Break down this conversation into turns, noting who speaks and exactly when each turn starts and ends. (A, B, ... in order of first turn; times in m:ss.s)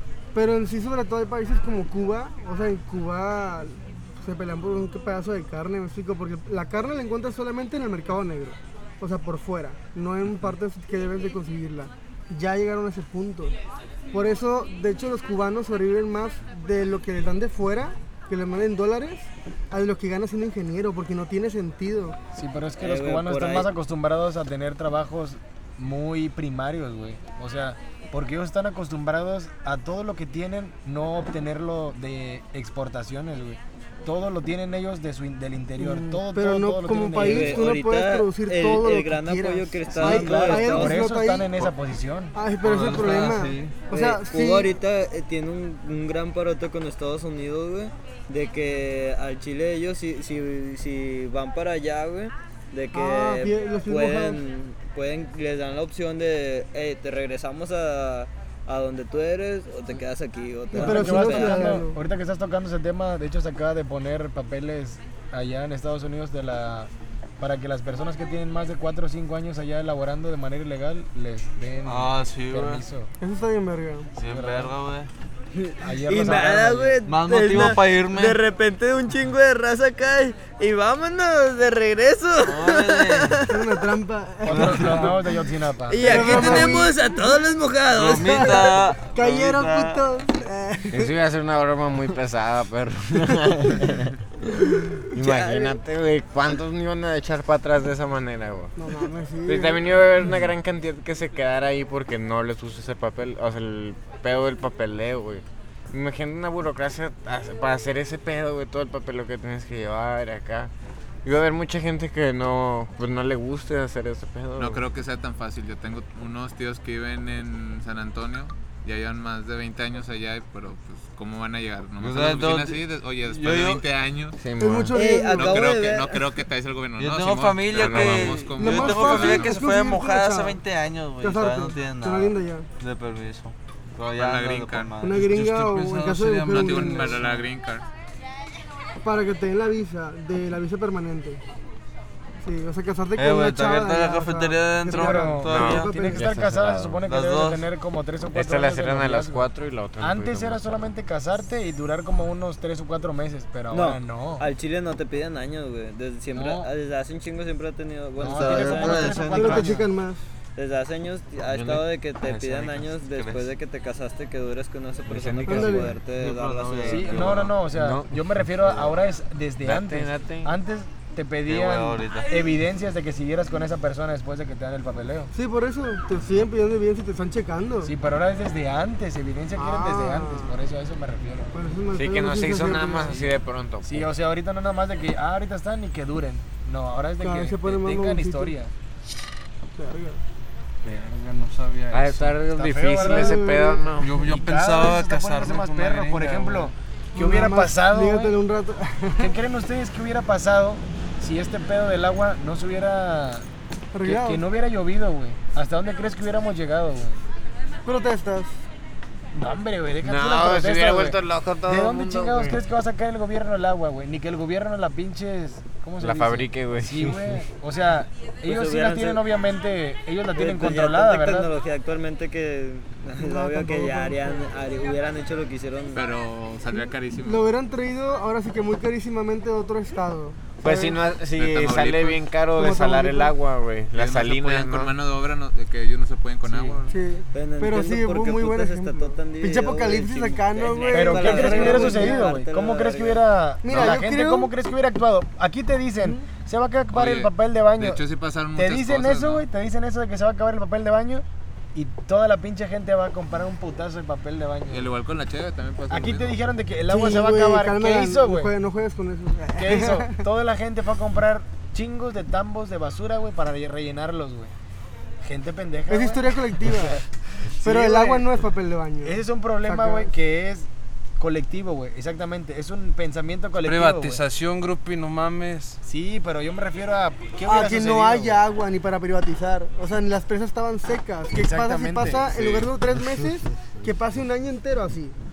0:00.3-0:13.6 A
0:14.1-0:22.2 A
0:22.3-0:37.6 B
0:22.8-0:23.7 C
0:35.8-0:41.5 A
0:37.2-0:41.0 C
0:39.9-0:42.3 B
0:42.3-0:44.7 A
0:42.6-0:43.8 D
0:43.9-1:01.8 C
0:52.9-0:54.4 A
1:00.7-1:02.0 A
1:00.7-1:13.1 B
1:11.8-1:12.8 D
1:13.2-1:14.1 A
1:14.2-1:14.7 B
1:14.2-1:15.1 D
1:15.5-1:23.5 C
1:15.8-1:17.0 B
1:17.0-1:18.4 D
1:22.4-1:23.5 D
1:23.5-1:25.3 A
1:24.4-1:26.6 B
1:24.5-1:25.1 D
1:25.9-1:28.7 C
1:26.0-1:27.4 A
1:27.9-1:30.0 D
1:28.2-1:31.1 A
1:30.9-1:34.2 E
1:35.0-1:38.7 E
1:35.1-1:35.8 C
1:38.8-1:39.9 A
1:39.4-1:50.7 E
1:51.2-1:54.8 E
1:54.6-2:04.4 F
2:02.0-2:03.8 D
2:04.4-2:05.0 E
2:04.6-2:05.6 A
2:04.9-2:06.2 C
2:05.3-2:09.6 F
2:07.0-2:15.3 D
2:07.7-2:08.5 E
2:08.5-2:10.6 A
2:11.2-2:12.7 A
2:14.1-2:14.9 F
2:15.0-2:17.2 A
2:15.2-2:17.5 G
2:16.5-2:17.8 F
2:19.0-2:21.4 A
2:22.4-2:26.3 A
2:23.2-2:25.9 D
2:24.8-2:34.4 B
2:25.4-2:27.0 E
2:27.0-2:27.7 D
2:28.3-2:30.6 E
2:33.7-2:39.3 C
2:36.3-2:36.7 B
2:38.2-2:39.9 B
2:38.2-2:39.6 D
2:39.3-2:40.2 A
2:40.6-2:47.5 C
2:41.5-2:41.8 E
2:42.3-2:43.5 D
2:45.1-2:46.0 E
2:45.4-2:45.9 A
2:46.1-2:47.6 D
2:46.8-2:55.3 B
2:47.6-2:48.9 E
2:49.6-2:50.5 E
2:51.4-2:52.5 D
2:55.3-2:57.9 A
2:57.8-3:01.5 B
2:59.6-3:00.6 A
3:01.5-3:03.2 A
3:01.9-3:04.1 E
3:03.8-3:08.7 B
3:07.2-3:08.5 A
3:09.7-3:10.2 A
3:10.8-3:12.4 G
3:11.9-3:14.2 E
3:12.5-3:13.4 B
3:12.9-3:13.9 A
3:14.0-3:16.7 G
3:14.1-3:18.4 B
3:17.1-3:19.3 A
3:19.2-3:23.4 B
3:23.9-3:24.4 A
3:24.0-3:27.2 B
3:27.8-3:28.6 A
3:29.3-3:41.5 B
3:30.0-3:32.6 E
3:36.0-3:37.2 E
3:38.4-3:39.2 C
3:40.3-3:46.0 C
3:43.2-3:44.4 A
3:45.9-3:47.5 F
3:47.2-3:51.0 A
3:50.6-3:54.9 E
3:51.3-3:52.2 F
3:52.5-3:53.4 A
3:53.9-3:56.9 F
3:56.8-4:02.3 A
3:57.3-4:03.2 C
4:00.9-4:08.0 B
4:03.6-4:04.5 A
4:06.9-4:09.5 F
4:08.5-4:14.9 B
4:14.7-4:16.4 F
4:15.9-4:18.5 B
4:16.8-4:20.2 A
4:19.6-4:24.5 B
4:25.2-4:27.0 B
4:25.9-4:27.0 A
4:27.6-4:28.3 B
4:27.6-4:30.1 A
4:29.0-4:30.7 B
4:31.2-4:34.2 B
4:33.6-4:35.8 G
4:35.8-4:38.4 B
4:37.4-4:45.1 A
4:41.3-4:42.7 B